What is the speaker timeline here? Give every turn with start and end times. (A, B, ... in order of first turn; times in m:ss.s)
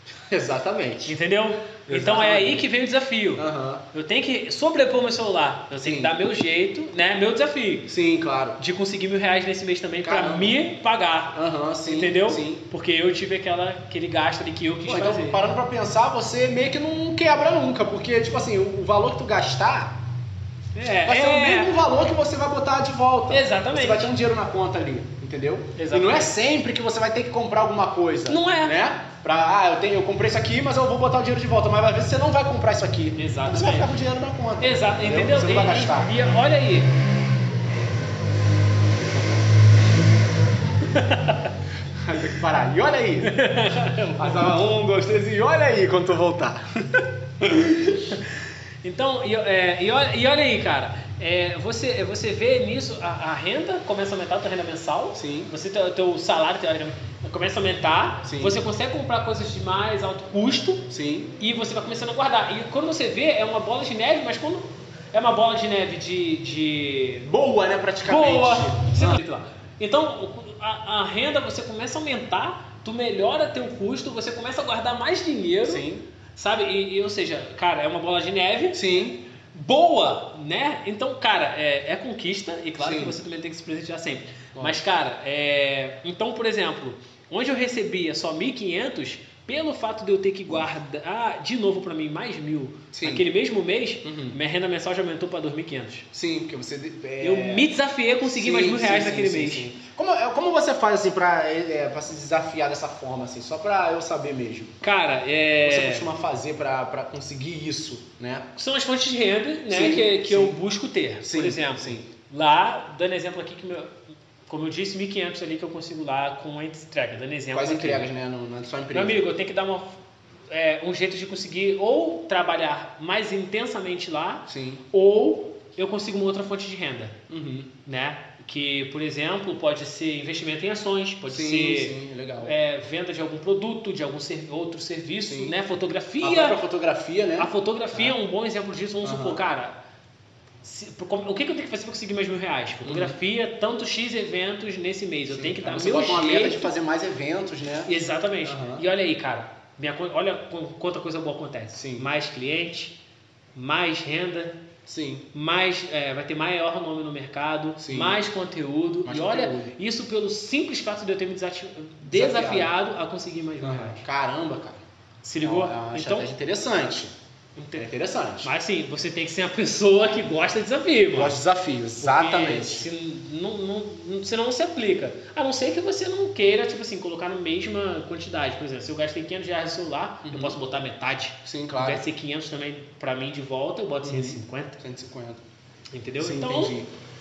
0:00.3-0:01.1 A
0:01.0-0:07.9 B
0:01.9-0:02.7 A
0:03.4-0:03.8 A
0:05.8-0:06.1 A
0:07.9-0:08.6 A
0:08.6-0:15.4 B
0:10.0-0:10.6 A
0:11.3-0:12.6 A
0:14.8-0:19.9 A
0:20.7-0:21.8 B
0:21.0-0:36.1 A
0:23.3-0:24.1 B
0:25.8-0:26.3 B
0:28.3-0:28.8 B
0:33.2-0:33.9 B
0:34.6-0:36.9 B
0:40.8-0:41.5 B
0:42.0-0:43.4 A
0:43.2-0:44.6 B
0:44.2-0:47.8 A
0:47.6-1:07.3 B
0:55.1-0:55.5 A
0:58.2-0:58.6 A
1:00.9-1:01.3 A
1:07.2-1:09.2 A
1:08.0-1:18.8 B
1:15.6-1:16.0 A
1:18.7-1:19.2 A
1:19.5-1:36.0 B
1:22.8-1:23.2 A
1:24.5-1:24.8 A
1:32.9-1:33.3 A
1:34.0-1:34.4 A
1:36.1-1:37.7 A
1:37.2-1:39.7 B
1:38.2-1:44.8 A
1:44.8-1:46.1 B
1:45.6-1:48.5 A
1:48.6-1:53.9 B
1:49.7-1:50.6 A
1:51.2-1:52.1 A
1:54.5-1:58.1 B
1:57.5-1:59.2 A
1:58.9-2:00.0 B
2:00.5-2:07.2 B
2:04.5-2:04.8 A
2:07.3-2:07.7 A
2:07.8-2:16.6 B
2:11.3-2:12.5 A
2:15.2-2:15.6 A
2:16.2-2:18.2 A
2:17.4-2:19.8 B
2:19.0-2:19.4 A
2:20.6-2:26.7 B
2:22.8-2:23.2 A
2:25.3-2:27.9 A
2:27.9-2:33.0 B
2:28.4-2:28.8 A
2:31.7-2:32.1 A
2:33.6-2:34.6 B
2:34.8-2:35.3 A
2:35.3-2:44.0 B
2:37.8-2:38.2 A
2:39.0-2:39.7 A
2:42.1-2:42.7 A
2:43.6-2:44.8 A
2:45.2-2:46.3 B
2:45.4-2:47.1 A
2:47.6-2:47.9 B
2:47.8-2:48.5 A
2:48.4-2:51.4 B
2:51.1-2:52.9 A
2:52.0-3:04.8 B
3:00.2-3:00.6 A
3:01.4-3:02.0 A
3:04.0-3:05.4 A
3:05.9-3:06.8 B
3:06.2-3:06.9 A